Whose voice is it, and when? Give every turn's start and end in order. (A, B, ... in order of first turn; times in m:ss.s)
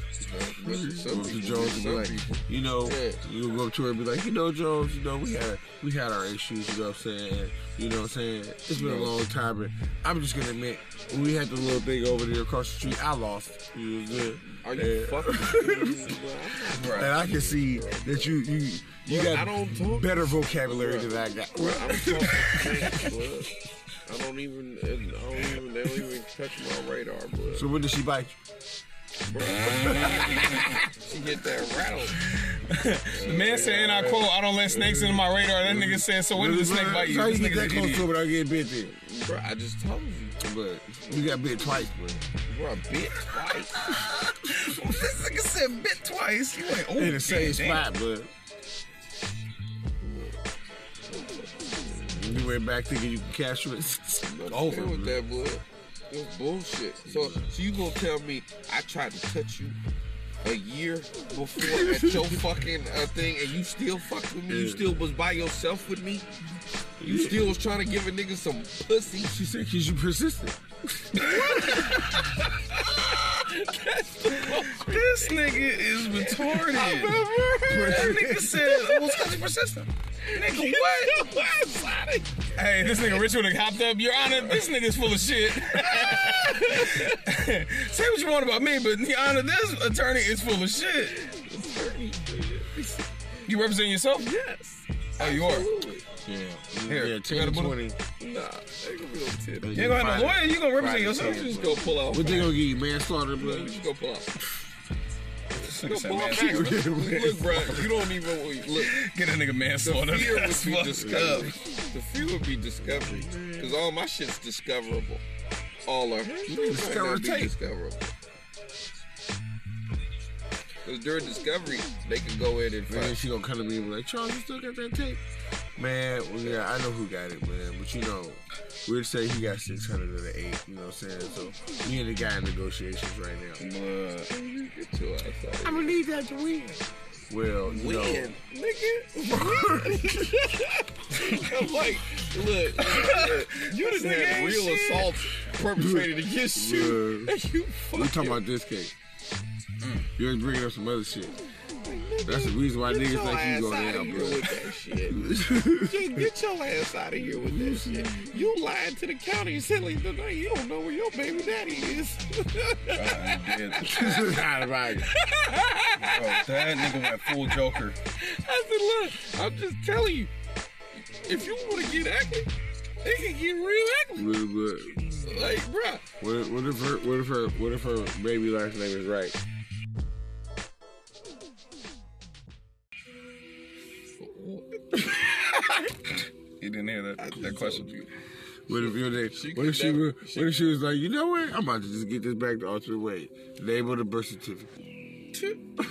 0:00.2-0:03.2 A
0:00.6-0:16.1 B
0:08.7-0:09.1 A
0:14.5-0:18.4 A
0:16.7-0:23.1 B
0:16.7-0:17.2 C
0:19.1-0:23.5 A
0:24.0-0:27.7 A
0:27.5-0:28.4 B
0:29.3-0:32.2 A
0:32.2-0:38.1 C
0:33.1-0:34.2 A
0:33.5-0:38.9 B
0:38.9-0:40.5 A
0:40.4-0:42.2 B
0:41.0-0:41.8 A
0:42.4-0:43.8 A
0:44.0-0:47.9 C
0:46.8-0:48.3 B
0:50.0-0:50.4 A
0:51.1-0:52.4 A
0:52.1-0:55.2 B
0:54.2-0:59.8 A
0:54.5-0:54.9 C
0:57.1-0:57.5 B
1:00.4-1:06.3 A
1:01.6-1:02.4 B
1:04.5-1:04.9 B
1:07.0-1:07.6 B
1:07.0-1:09.4 A
1:09.2-1:11.9 B
1:11.1-1:19.3 A
1:11.3-1:12.2 C
1:14.4-1:21.4 C
1:17.8-1:18.5 B
1:20.2-1:22.4 A
1:22.6-1:31.2 C
1:24.3-1:24.6 A
1:25.6-1:27.2 A
1:31.1-1:33.3 A
1:33.5-1:34.3 C
1:34.2-1:36.1 A
1:35.2-1:35.7 C
1:36.2-1:38.0 B
1:36.9-1:37.8 C
1:38.2-1:39.8 A
1:39.6-1:43.8 B
1:39.8-1:41.8 C
1:40.8-1:42.6 A
1:43.4-1:44.4 A
1:45.6-1:46.8 C
1:45.6-1:49.0 A
1:46.4-1:48.0 B
1:48.7-1:51.5 C
1:49.8-1:55.2 A
1:51.0-1:51.6 B
1:52.8-1:53.8 B
1:55.9-1:58.1 A
1:56.4-1:57.6 B
2:00.8-2:03.2 A
2:02.9-2:05.2 B
2:05.8-2:13.6 B
2:13.6-2:14.3 C
2:14.3-2:16.0 A
2:15.6-2:18.4 B
2:17.6-2:28.4 A
2:19.3-2:20.3 B
2:21.2-2:21.5 C
2:22.8-2:25.3 C
2:25.8-2:27.3 B
2:27.9-2:28.9 B
2:29.8-2:30.1 C
2:30.2-2:31.4 B
2:31.8-2:44.4 A
2:32.2-2:34.5 B
2:35.1-2:36.2 B
2:37.3-2:38.3 B
2:42.9-2:44.0 C
2:43.8-2:45.1 B
2:45.0-2:50.3 A
2:46.0-2:48.0 C
2:51.2-2:52.5 A
2:53.0-2:54.4 A
2:54.2-2:55.3 B
2:55.0-2:56.0 A
2:56.2-2:59.4 B
3:04.2-3:05.1 A
3:06.6-3:08.0 C
3:07.2-3:08.1 A
3:08.7-3:14.9 B
3:08.7-3:10.6 A
3:15.3-3:15.6 A